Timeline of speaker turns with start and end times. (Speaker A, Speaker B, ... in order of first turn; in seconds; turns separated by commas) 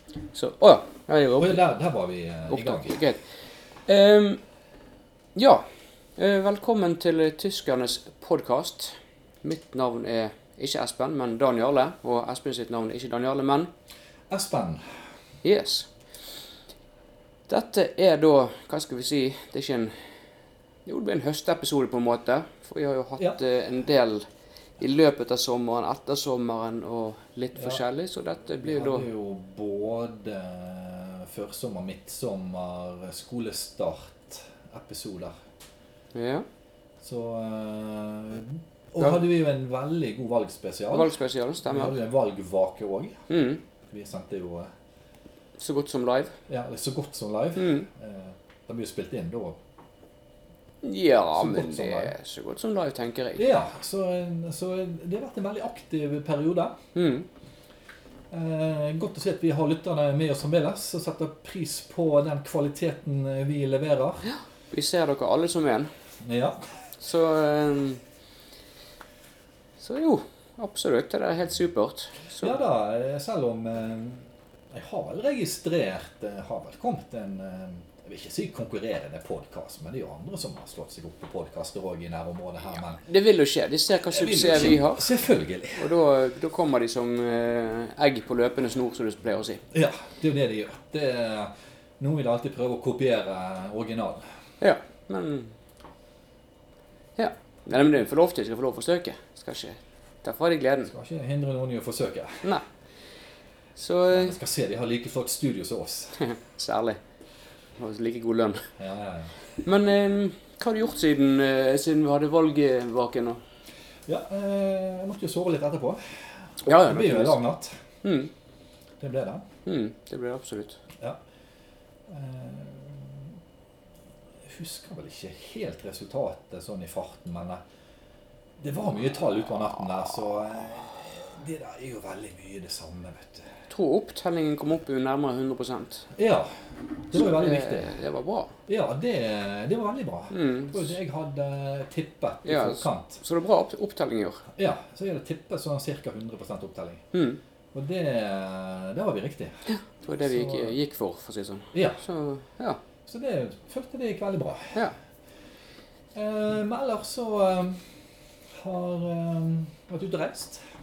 Speaker A: 0.3-1.7, Speaker B: 1.4-3.0, Speaker A: 2.5-3.2, Speaker A: 3.9-4.4, Speaker A: 5.3-5.6, Speaker A: 6.2-13.7, Speaker B: 14.3-14.9, Speaker A: 15.4-15.9, Speaker A: 17.5-20.1, Speaker A: 20.9-24.2, Speaker A: 24.8-29.1, Speaker B: 27.6-27.8, Speaker B: 28.6-35.3, Speaker A: 36.1-36.4, Speaker B: 37.0-41.1, Speaker A: 40.9-42.0, Speaker B: 41.6-43.2, Speaker A: 43.3-43.6, Speaker B: 43.9-44.7, Speaker A: 45.6-46.4, Speaker B: 46.5-49.6, Speaker A: 47.5-47.9, Speaker A: 50.8-53.5, Speaker B: 51.3-52.1, Speaker B: 53.4-56.8, Speaker A: 56.9-57.3, Speaker B: 58.3-64.2, Speaker A: 64.3-65.9, Speaker B: 66.2-66.7, Speaker A: 67.0-68.0, Speaker A: 69.8-72.6, Speaker B: 72.4-83.0, Speaker A: 83.0-85.1, Speaker B: 84.1-85.9, Speaker A: 85.8-89.6, Speaker B: 89.7-94.3, Speaker A: 94.6-95.5, Speaker A: 97.2-100.9, Speaker B: 100.8-102.4, Speaker A: 103.8-104.4, Speaker B: 104.1-106.2, Speaker A: 106.2-107.0, Speaker A: 107.8-108.7, Speaker B: 108.8-109.5, Speaker A: 109.6-113.4, Speaker B: 114.0-117.8, Speaker A: 116.6-117.4, Speaker A: 118.0-118.3, Speaker B: 119.0-119.5, Speaker A: 119.7-120.8, Speaker B: 122.1-123.3, Speaker B: 124.4-127.6, Speaker B: 128.6-133.5, Speaker A: 133.7-136.1, Speaker B: 136.1-137.9, Speaker A: 137.1-138.5, Speaker B: 138.7-143.2, Speaker A: 140.3-140.8, Speaker A: 142.4-144.4, Speaker B: 144.5-147.1, Speaker A: 147.1-147.4, Speaker B: 147.7-149.6, Speaker A: 149.7-152.8, Speaker B: 150.2-150.8, Speaker B: 151.7-152.0, Speaker B: 153.1-154.8, Speaker B: 156.1-157.9, Speaker B: 158.5-160.6